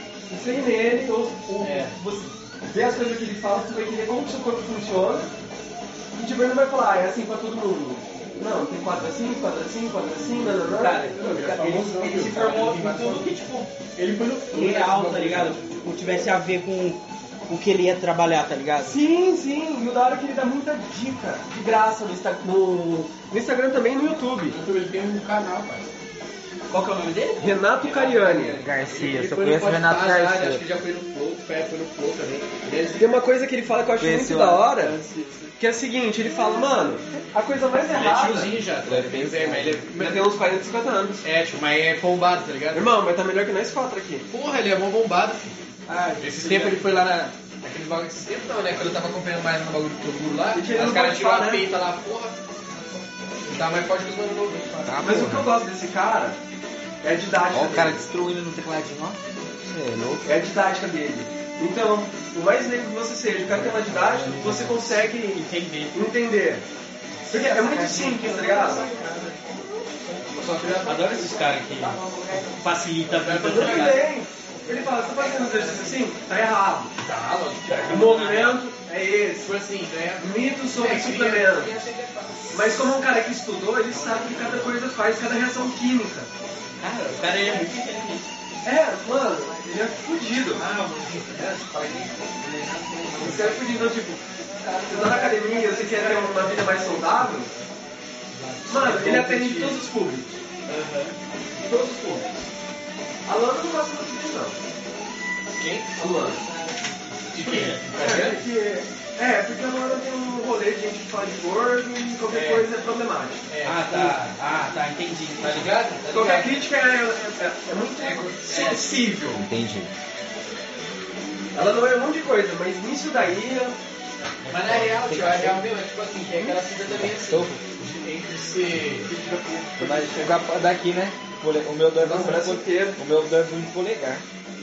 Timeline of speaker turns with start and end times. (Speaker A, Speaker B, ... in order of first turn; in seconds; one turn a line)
Speaker A: 0.3-5.3
Speaker B: 1.6-1.9
Speaker A: 6.2-11.9
Speaker C: 10.7-13.7
Speaker B: 11.1-13.3
Speaker B: 13.9-15.7
Speaker C: 14.5-19.0
Speaker A: 18.8-24.6
Speaker B: 24.4-25.9
Speaker C: 26.7-27.5
Speaker A: 27.4-28.6
Speaker B: 27.8-33.1
Speaker D: 28.6-30.6
Speaker A: 32.9-35.0
Speaker D: 34.0-34.7
Speaker B: 34.8-35.5
Speaker A: 35.6-38.5
Speaker D: 36.5-37.2
Speaker B: 37.9-40.3
Speaker D: 38.8-39.9
Speaker A: 40.0-41.2
Speaker B: 41.2-42.9
Speaker A: 42.7-44.3
Speaker B: 44.3-45.6
Speaker C: 45.9-47.0
Speaker B: 46.2-55.3
Speaker A: 50.5-51.7
Speaker D: 54.8-55.5
Speaker A: 55.0-56.4
Speaker A: 57.0-58.0
Speaker D: 57.5-60.3
Speaker A: 60.2-66.6
Speaker B: 63.5-64.7
Speaker C: 64.2-65.9
Speaker A: 67.3-68.8
Speaker C: 67.6-69.4
Speaker B: 70.2-71.8
Speaker C: 70.8-74.0
Speaker D: 71.9-72.6
Speaker B: 73.0-76.0
Speaker A: 73.4-76.9
Speaker B: 77.0-78.6
Speaker C: 77.7-78.6
Speaker A: 77.8-79.5
Speaker B: 79.4-83.1
Speaker A: 80.2-81.7
Speaker A: 82.5-86.3
Speaker B: 83.9-84.7
Speaker C: 86.8-88.3
Speaker B: 87.0-87.6
Speaker A: 88.6-90.6
Speaker B: 90.5-93.9
Speaker A: 93.2-94.2
Speaker B: 94.6-97.4
Speaker A: 94.8-97.5
Speaker B: 98.3-99.9
Speaker A: 98.7-100.4
Speaker B: 100.7-101.1
Speaker A: 101.6-102.4
Speaker A: 103.2-104.5
Speaker B: 105.6-105.9
Speaker A: 106.0-106.4
Speaker B: 107.3-108.4
Speaker C: 107.4-107.8
Speaker A: 107.9-113.4
Speaker B: 112.3-112.7
Speaker B: 113.5-114.0
Speaker C: 113.6-115.7
Speaker B: 115.5-116.7
Speaker A: 116.1-119.4
Speaker B: 118.0-118.9
Speaker D: 119.4-119.9
Speaker A: 121.5-123.8
Speaker D: 124.4-125.6
Speaker B: 124.5-129.1
Speaker D: 126.9-127.6
Speaker A: 129.1-130.4
Speaker D: 129.8-134.2
Speaker A: 131.9-133.0